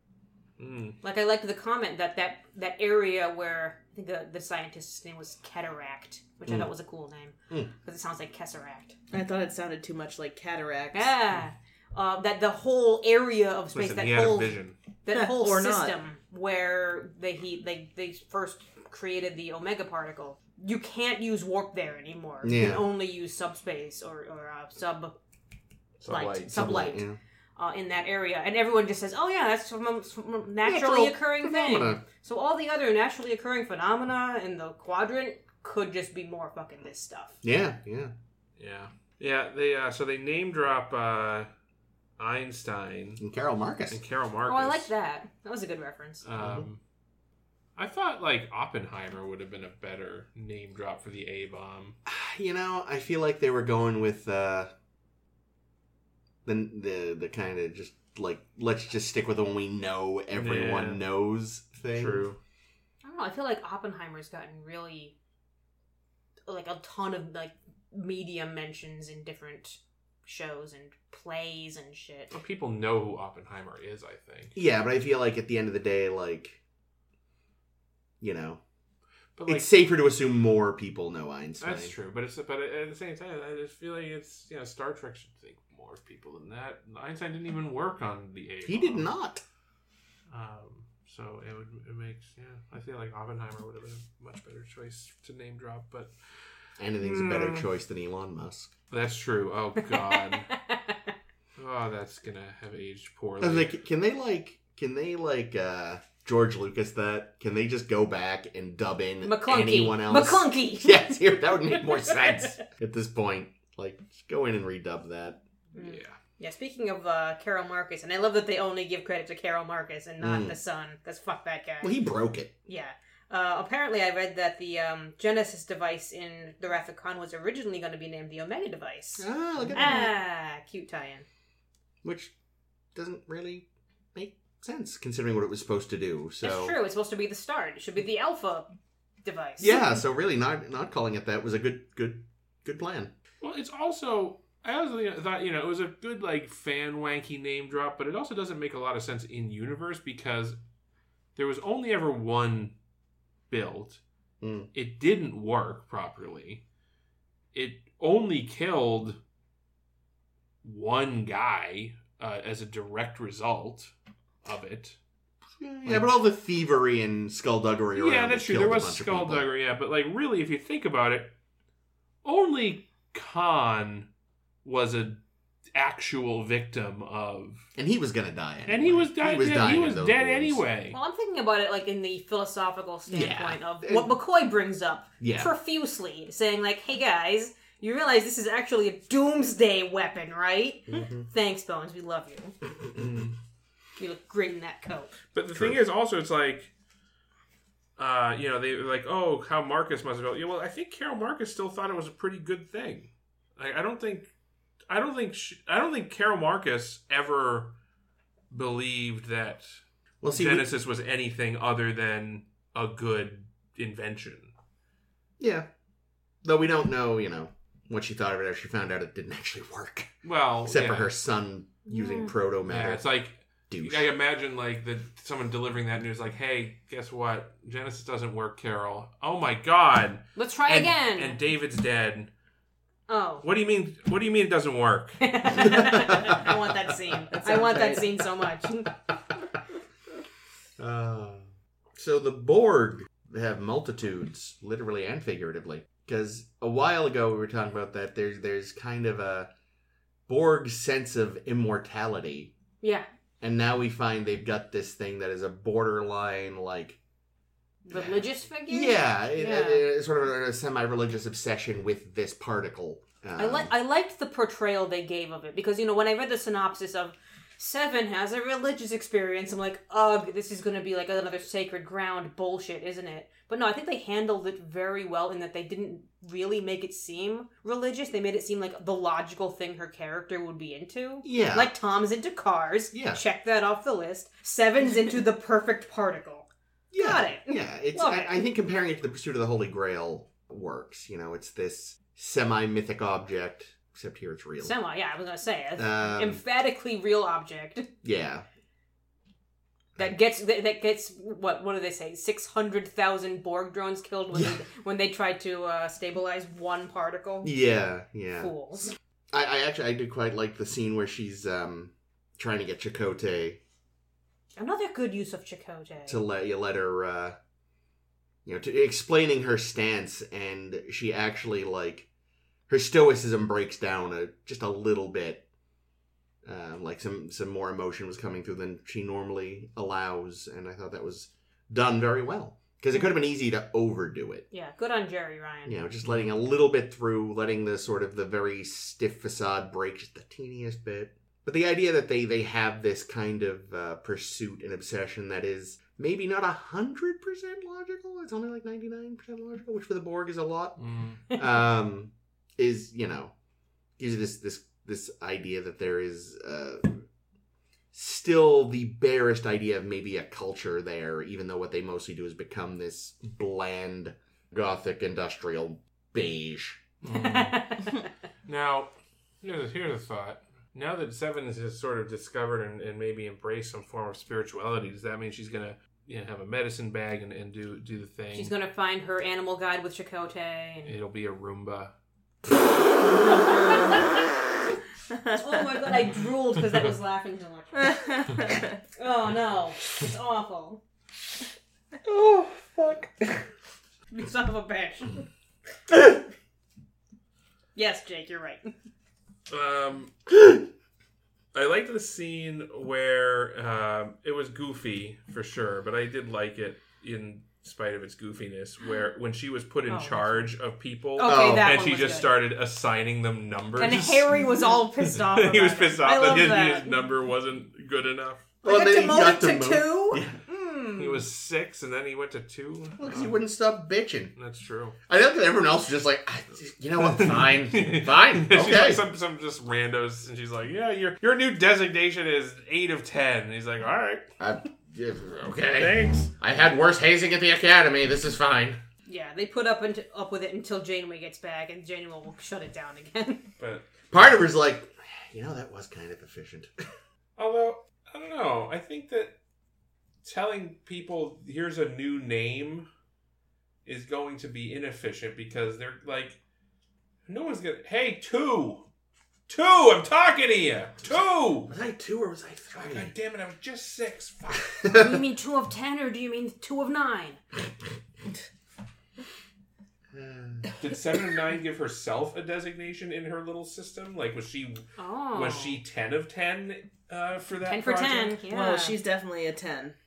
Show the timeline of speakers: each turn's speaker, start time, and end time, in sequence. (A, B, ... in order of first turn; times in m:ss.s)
0:00.6-0:01.0 A
0:01.0-0:09.0 B
0:06.5-0:06.7 C
0:09.1-0:11.1 D
0:10.9-0:25.2 B
0:13.7-0:14.8 A
0:15.1-0:16.0 D
0:22.4-0:22.8 C
0:26.0-0:26.7 A
0:26.1-0:27.0 B
0:26.5-0:27.2 C
0:27.6-0:37.4 B
0:30.6-0:32.0 C
0:37.4-0:38.1 C
0:38.6-0:41.5 A
0:42.2-0:43.2 A
0:43.2-0:44.0 C
0:43.9-0:44.9 A
0:44.5-0:46.3 B
0:46.2-0:46.8 A
0:46.4-0:46.7 C
0:47.8-0:52.0 A
0:52.1-0:54.7 C
0:56.5-1:02.3 C
1:00.3-1:01.0 A
1:01.9-1:02.4 A
1:03.0-1:05.1 B
1:06.5-1:12.3 B
1:12.3-1:14.6 A
1:14.6-1:16.6 C
1:18.2-1:18.6 C
1:19.4-1:19.7 A
1:19.5-1:21.9 C
1:21.6-1:29.1 A
1:28.6-1:29.4 C
1:30.3-1:36.1 A
1:36.8-1:38.7 C
1:37.0-1:37.6 B
1:38.9-1:40.5 A
1:39.9-1:41.1 B
1:41.6-1:43.8 A
1:43.4-1:55.4 C
1:49.2-1:52.3 B
1:55.7-2:02.0 B
1:55.8-1:56.2 A
2:00.2-2:00.6 C
2:01.8-2:02.5 C
2:02.7-2:11.3 B
2:09.2-2:10.1 C
2:12.0-2:12.3 C
2:13.0-2:16.8 C
2:16.4-2:18.7 B
2:19.2-2:20.0 B
2:19.6-2:23.1 C
2:23.4-2:30.6 A
2:31.4-2:32.7 A
2:33.5-2:34.0 A
2:34.4-2:34.7 C
2:34.7-2:36.6 A
2:37.5-2:39.2 A
2:40.6-2:43.9 A
2:44.4-2:45.0 A
2:45.6-2:49.5 C
2:45.8-2:46.2 A
2:48.0-2:51.3 A
2:52.2-2:54.1 A
2:54.6-2:55.2 A
2:55.7-2:57.7 A
2:57.8-3:00.6 C
2:58.7-3:01.0 A
3:00.9-3:12.6 B
3:03.1-3:04.1 C
3:05.2-3:05.5 C
3:10.9-3:11.3 C
3:13.0-3:13.3 A
3:14.0-3:15.1 B
3:15.3-3:16.7 A
3:18.0-3:24.3 A
3:24.9-3:27.8 A
3:28.5-3:29.8 A
3:30.2-3:30.7 C
3:30.3-3:34.5 A
3:35.4-3:35.7 C
3:36.4-3:40.1 C
3:40.2-3:41.1 A
3:40.7-3:43.0 C
3:41.9-3:42.3 B
3:42.7-3:52.3 A
3:43.7-3:44.1 C
3:50.4-3:51.4 B
3:53.1-3:53.4 B
3:53.4-3:55.3 A
3:55.2-3:59.0 B
3:55.9-3:56.3 C
3:57.3-3:58.2 D
4:00.8-4:09.5 C
4:10.3-4:12.5 C
4:12.8-4:13.1 B
4:13.4-4:17.0 C
4:17.8-4:19.8 B
4:17.9-4:23.7 C
4:23.4-4:48.4 B
4:41.2-4:41.7 C
4:42.9-4:43.2 C
4:46.9-4:54.8 C
4:54.6-4:57.9 B
4:55.8-4:56.4 C
4:58.0-4:58.5 C
5:00.0-5:07.5 B
5:04.3-5:04.6 C
5:07.4-5:08.5 C
5:08.4-5:09.0 B
5:09.3-5:13.6 C
5:14.6-5:16.2 B
5:16.1-5:17.4 C
5:18.4-5:22.1 C
5:22.7-5:25.4 C
5:26.4-5:34.5 C
5:34.5-5:35.8 B
5:35.7-5:50.8 C
5:36.1-5:36.3 A
5:50.8-5:51.2 A
5:51.3-5:53.3 C
5:54.0-5:57.0 C
5:57.9-6:06.8 C
6:07.0-6:07.7 A
6:07.1-6:08.1 B
6:08.5-6:18.5 A
6:18.3-6:20.9 B
6:20.8-6:21.9 A
6:23.2-6:24.2 B
6:25.2-6:30.8 B
6:32.0-6:33.3 A
6:34.1-6:35.3 B
6:37.8-6:38.7 B
6:39.5-6:40.6 A
6:41.5-6:58.5 A
6:49.9-6:50.5 B
6:51.2-6:52.3 B
6:51.3-6:51.7 C
6:53.8-6:57.0 B
6:58.6-7:00.4 C
6:58.6-7:01.2 B
7:01.0-7:03.4 A
7:03.0-7:04.3 C
7:04.4-7:05.0 A
7:05.1-7:09.0 C
7:07.0-7:14.3 A
7:14.4-7:18.8 C
7:15.8-7:16.3 A
7:19.1-7:23.5 B
7:23.6-7:23.9 A
7:24.1-7:26.7 C
7:27.4-7:29.4 A
7:30.2-7:32.9 A
7:33.8-7:36.4 A
7:37.3-7:38.9 A
7:39.5-7:41.7 A
7:41.7-7:43.1 C
7:42.7-7:44.9 A
7:44.8-7:45.2 C
7:44.9-7:47.4 B
7:50.1-7:50.7 C
7:50.8-7:58.4 A
7:55.0-7:55.8 B
7:57.6-7:59.0 B
7:58.5-8:00.0 D